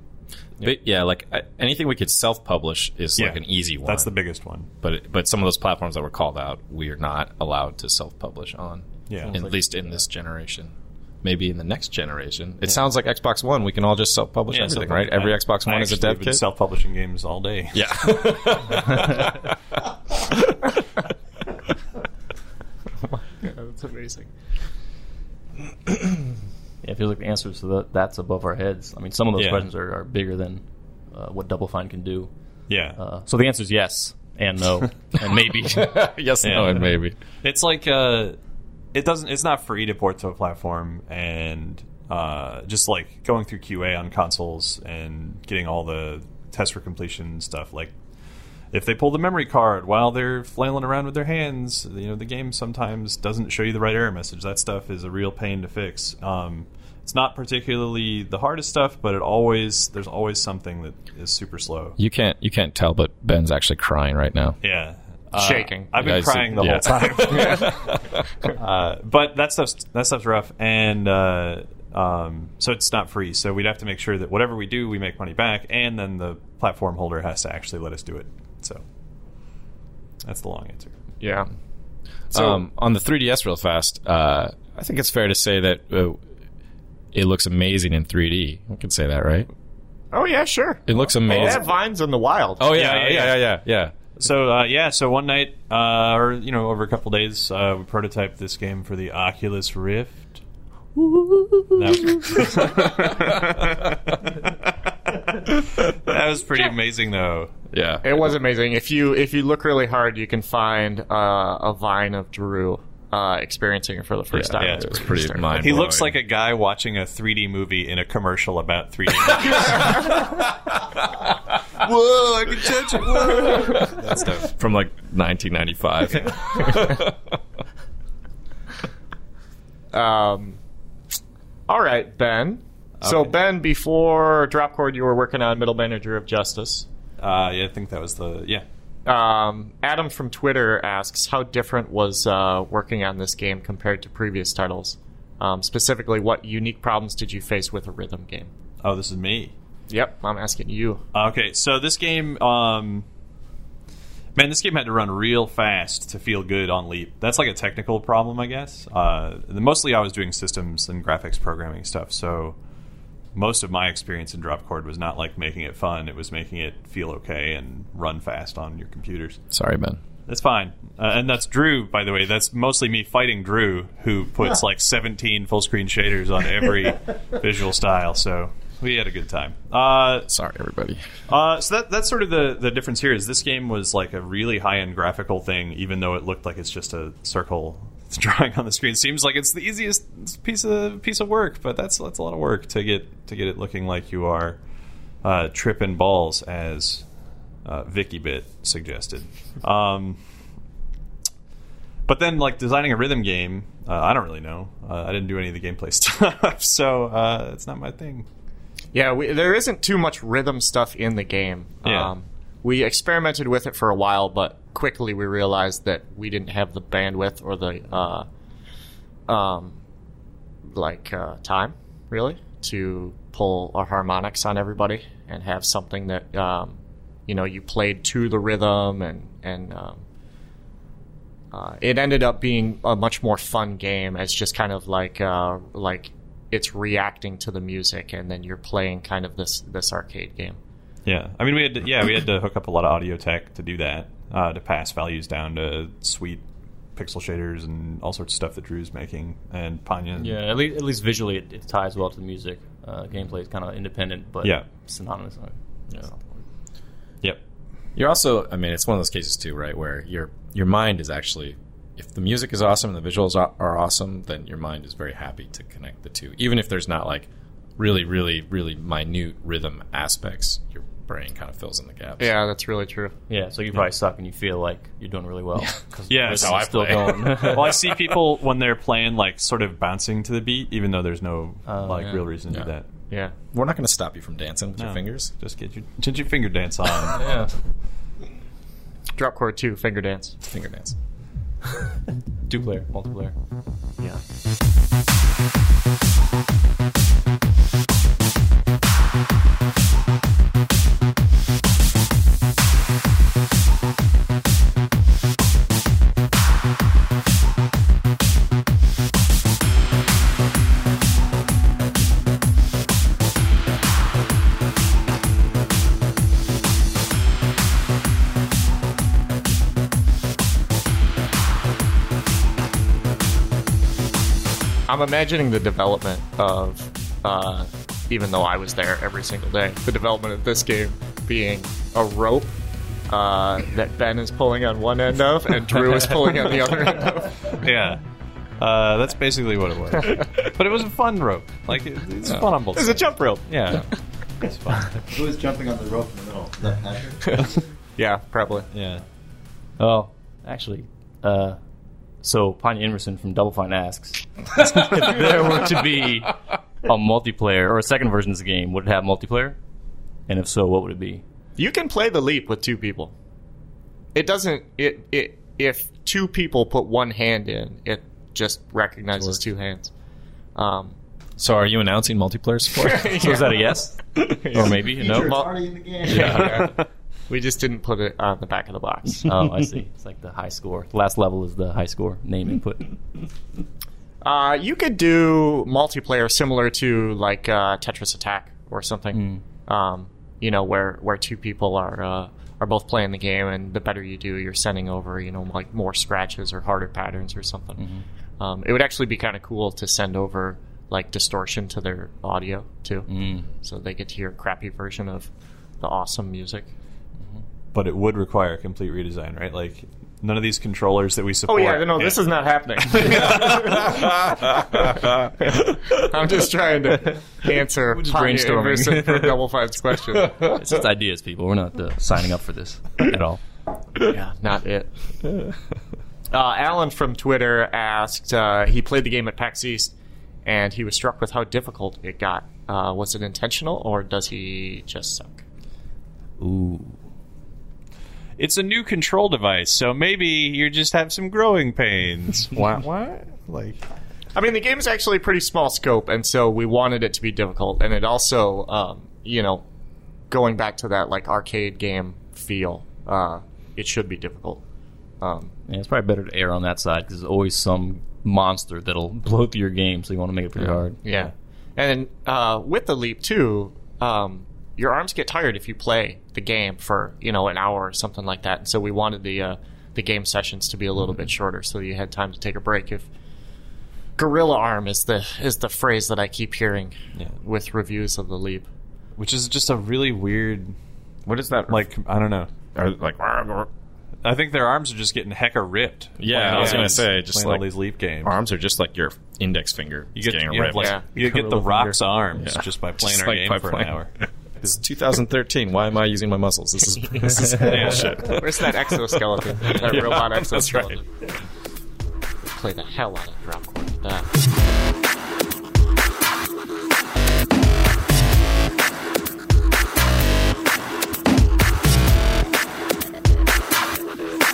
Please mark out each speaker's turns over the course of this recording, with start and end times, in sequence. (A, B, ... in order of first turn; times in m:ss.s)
0:00.6-0:04.1 A
0:03.2-0:04.7 B
0:04.8-0:16.4 A
0:09.1-0:09.3 B
0:09.2-0:09.7 C
0:14.5-0:18.3 B
0:17.7-0:19.5 A
0:23.4-0:24.3 D
0:26.8-0:32.3 C
0:29.4-0:29.6 B
0:32.7-0:33.0 B
0:32.9-0:36.0 C
0:35.7-0:37.2 A
0:36.4-0:38.4 B
0:38.9-0:47.9 B
0:48.7-1:02.0 B
1:02.0-1:04.6 A
1:04.6-1:08.0 B
1:05.4-1:05.9 D
1:06.0-1:08.2 A
1:08.6-1:18.8 B
1:20.2-1:20.9 B
1:21.2-1:21.5 D
1:22.3-1:26.2 A
1:22.3-1:22.6 D
1:27.1-1:29.5 A
1:30.1-1:32.7 D
1:30.8-1:31.7 A
1:31.3-1:31.6 B
1:32.6-1:33.9 A
1:32.7-1:33.6 B
1:34.2-1:40.4 B
1:41.3-1:41.8 C
1:41.7-1:47.5 B
1:47.7-1:48.3 A
1:48.0-1:55.6 D
1:54.3-1:56.2 A
1:54.6-2:00.4 B
1:59.4-2:01.4 A
2:01.8-2:04.5 B
2:02.6-2:03.9 A
2:03.3-2:03.9 D
2:04.6-2:07.3 A
2:09.9-2:10.6 D
2:11.7-2:16.8 D
2:13.0-2:13.3 B
2:17.2-2:18.6 B
2:19.0-2:28.5 D
2:28.8-2:29.5 B
2:29.9-2:31.0 D
2:31.1-2:33.0 B
2:34.3-2:42.6 B
2:43.3-2:49.4 B
2:49.5-2:50.0 A
2:50.3-3:00.3 B
3:00.3-3:01.1 A
3:01.3-3:14.6 B
3:15.2-3:17.0 B
3:17.6-3:20.2 B
3:22.0-3:28.2 B
3:28.9-3:38.3 D
3:31.8-3:32.1 B
3:39.3-3:39.8 D
3:40.7-3:50.0 D
3:51.5-4:00.6 D
4:01.0-4:06.4 B
4:06.9-4:10.4 B
4:10.2-4:16.2 C
4:17.9-4:32.3 A
4:32.2-4:33.1 D
4:33.3-4:37.8 C
4:36.1-4:42.8 B
4:36.2-4:37.8 A
4:41.7-4:42.3 C
4:43.4-4:45.3 A
4:44.8-4:47.3 B
4:47.2-4:47.5 C
4:49.2-4:50.4 D
4:50.4-4:51.0 A
4:52.4-4:53.3 C
5:24.9-5:32.6 D
5:33.1-5:37.5 D
5:37.6-5:38.0 B
5:38.6-5:45.0 B
5:42.7-5:43.8 D
5:45.1-5:47.4 E
5:48.0-5:48.7 D
5:48.7-5:49.0 B
5:49.8-5:51.6 C
5:52.2-5:59.6 C
6:00.3-6:01.2 C
6:01.6-6:03.1 D
6:04.1-6:09.9 D
6:10.5-6:11.0 D
6:11.4-6:13.2 A
6:12.8-6:15.5 D
6:13.2-6:15.3 C
6:14.6-6:16.7 E
6:16.0-6:19.3 D
6:16.1-6:16.5 A
6:19.2-6:23.0 C
6:24.2-6:37.8 D
6:29.1-6:29.4 C
6:37.8-6:38.0 C
6:38.4-6:46.7 D
6:43.1-6:43.5 C
6:47.7-6:52.2 B
6:51.5-7:00.6 D
6:52.9-6:53.8 B
6:53.2-6:56.0 A
6:57.9-6:59.4 C
7:00.4-7:03.4 C
7:04.0-7:04.9 D
7:06.3-7:09.9 D
7:10.4-7:15.4 D
7:16.4-7:17.0 C
7:18.4-7:23.8 B
7:24.3-7:29.6 D
7:30.3-7:34.6 D
7:35.2-7:35.5 D
7:35.7-7:41.0 C
7:41.0-7:53.1 D
7:54.2-7:58.7 D
7:59.2-8:00.7 B
8:01.2-8:01.9 A
8:01.7-8:02.5 B
8:02.7-8:03.7 A
8:04.2-8:08.3 B
8:06.2-8:07.6 A
8:06.5-8:07.0 D
8:08.2-8:11.0 A
8:10.2-8:14.1 B
8:10.7-8:12.0 D
8:12.3-8:13.9 A
8:14.6-8:21.0 A
8:17.6-8:18.2 B
8:18.2-8:21.0 D
8:22.5-8:24.3 D